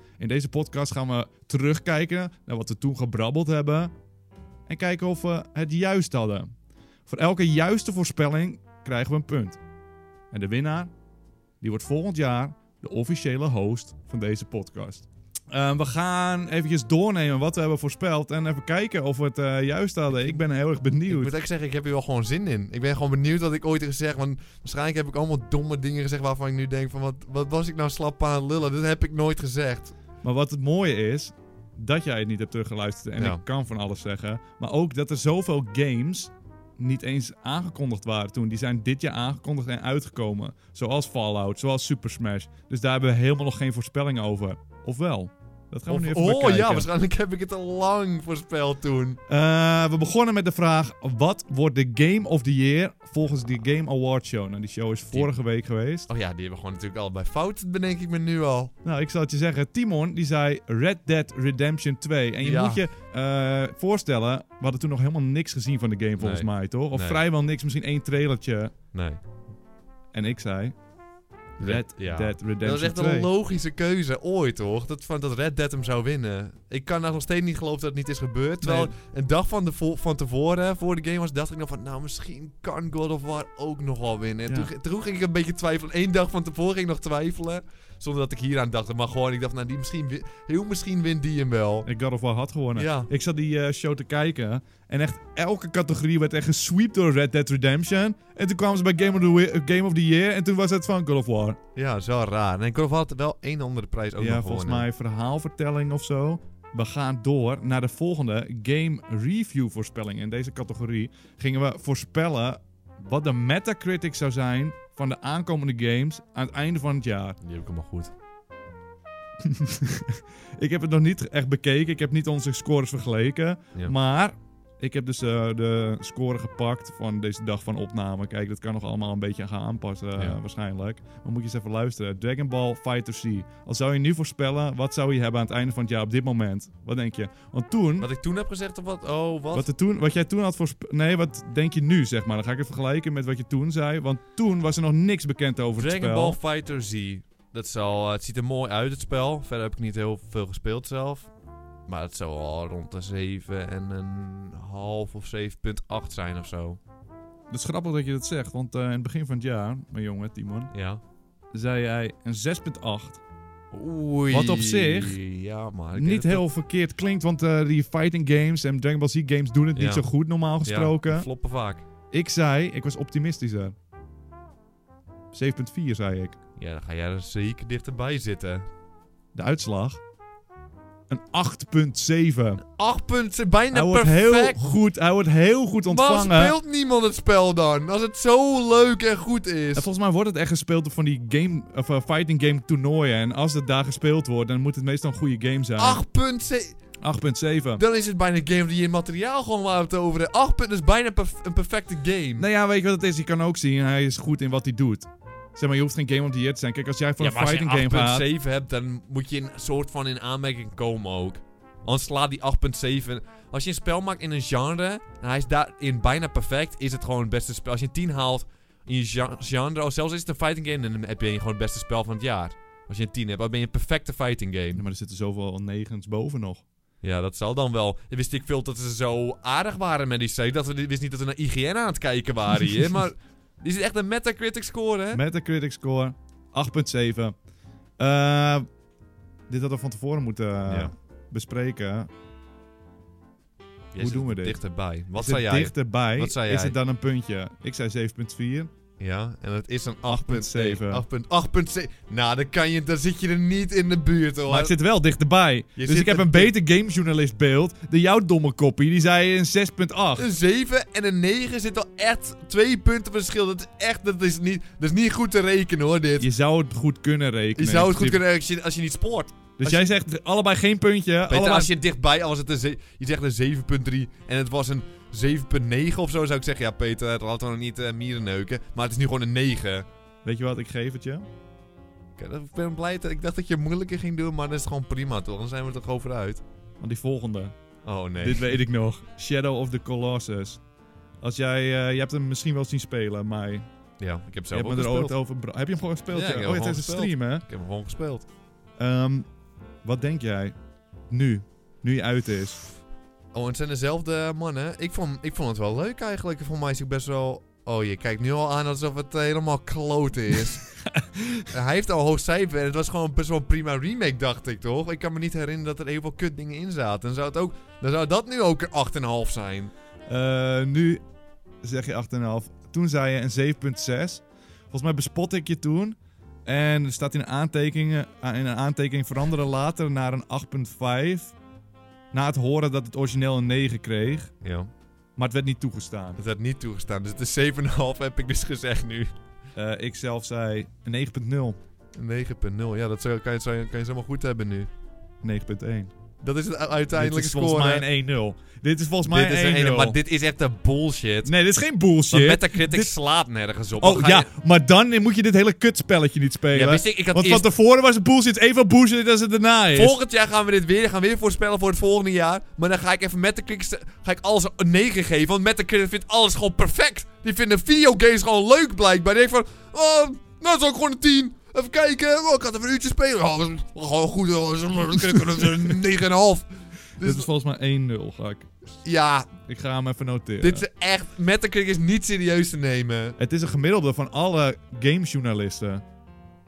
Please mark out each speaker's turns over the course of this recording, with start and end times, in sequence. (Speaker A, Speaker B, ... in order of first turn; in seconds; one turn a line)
Speaker A: 0.2-3.9
Speaker A: 4.7-6.5
Speaker A: 7.1-9.6
Speaker A: 10.3-10.9
Speaker A: 11.6-21.4
Speaker B: 21.1-29.9
Speaker A: 30.2-46.9
Speaker B: 45.9-49.2
Speaker A: 49.3-56.1
Speaker B: 56.1-58.7
Speaker A: 58.8-68.7
Speaker B: 62.4-62.8
Speaker B: 66.2-67.2
Speaker B: 68.9-69.2
Speaker A: 70.1-70.8
Speaker B: 71.6-91.9
Speaker A: 71.6-73.3
Speaker A: 78.6-78.9
Speaker A: 91.9-101.6
Speaker B: 92.8-93.1
Speaker B: 101.8-104.8
Speaker A: 104.2-117.4
Speaker B: 117.4-118.1
Speaker A: 119.4-138.1
Speaker B: 138.0-139.7
Speaker A: 139.5-146.4
Speaker B: 145.8-151.3
Speaker B: 151.9-156.8
Speaker A: 157.5-160.7
Speaker B: 160.7-161.0
Speaker A: 161.5-163.2
Speaker B: 163.7-166.4
Speaker A: 164.3-165.2
Speaker A: 166.0-171.3
Speaker B: 169.8-170.1
Speaker B: 170.7-171.8
Speaker A: 172.1-173.8
Speaker A: 175.3-176.4
Speaker B: 176.6-178.7
Speaker A: 179.3-180.0
Speaker A: 181.1-182.6
Speaker B: 182.6-184.7
Speaker A: 183.7-186.5
Speaker B: 185.9-189.9
Speaker A: 189.8-196.0
Speaker B: 195.8-196.8
Speaker A: 197.0-197.8
Speaker B: 197.8-202.5
Speaker A: 202.4-208.3
Speaker B: 207.2-224.8
Speaker A: 224.8-226.7
Speaker B: 227.0-235.2
Speaker A: 235.1-237.3
Speaker A: 238.0-238.7
Speaker A: 239.5-242.1
Speaker B: 240.7-240.9
Speaker B: 243.9-246.8
Speaker A: 244.0-244.6
Speaker A: 245.1-248.7
Speaker B: 249.0-254.8
Speaker A: 250.1-251.0
Speaker A: 254.5-260.3
Speaker B: 255.8-256.5
Speaker B: 260.2-266.3
Speaker A: 266.2-268.2
Speaker B: 267.6-269.9
Speaker A: 269.6-271.7
Speaker B: 271.3-279.9
Speaker A: 280.2-281.3
Speaker B: 282.2-286.4
Speaker A: 286.8-287.5
Speaker B: 287.8-288.5
Speaker A: 288.2-290.6
Speaker A: 291.2-293.7
Speaker B: 294.0-295.1
Speaker A: 294.5-297.4
Speaker B: 296.1-298.2
Speaker A: 298.8-299.3
Speaker A: 299.8-300.6
Speaker A: 301.1-302.6
Speaker B: 303.3-310.6
Speaker A: 310.9-311.4
Speaker B: 311.5-319.7
Speaker A: 320.1-321.0
Speaker A: 321.6-331.4
Speaker A: 332.1-334.3
Speaker B: 334.4-334.7
Speaker A: 335.2-336.2
Speaker B: 336.2-339.1
Speaker A: 339.6-341.6
Speaker B: 342.0-344.7
Speaker A: 345.2-345.9
Speaker B: 346.2-347.9
Speaker A: 346.9-350.0
Speaker B: 349.1-351.3
Speaker A: 351.2-352.9
Speaker B: 352.1-354.3
Speaker A: 353.8-360.0
Speaker B: 356.5-357.5
Speaker B: 359.7-377.3
Speaker A: 377.0-378.5
Speaker B: 378.8-379.3
Speaker A: 379.4-380.7
Speaker B: 380.4-383.2
Speaker A: 383.2-385.8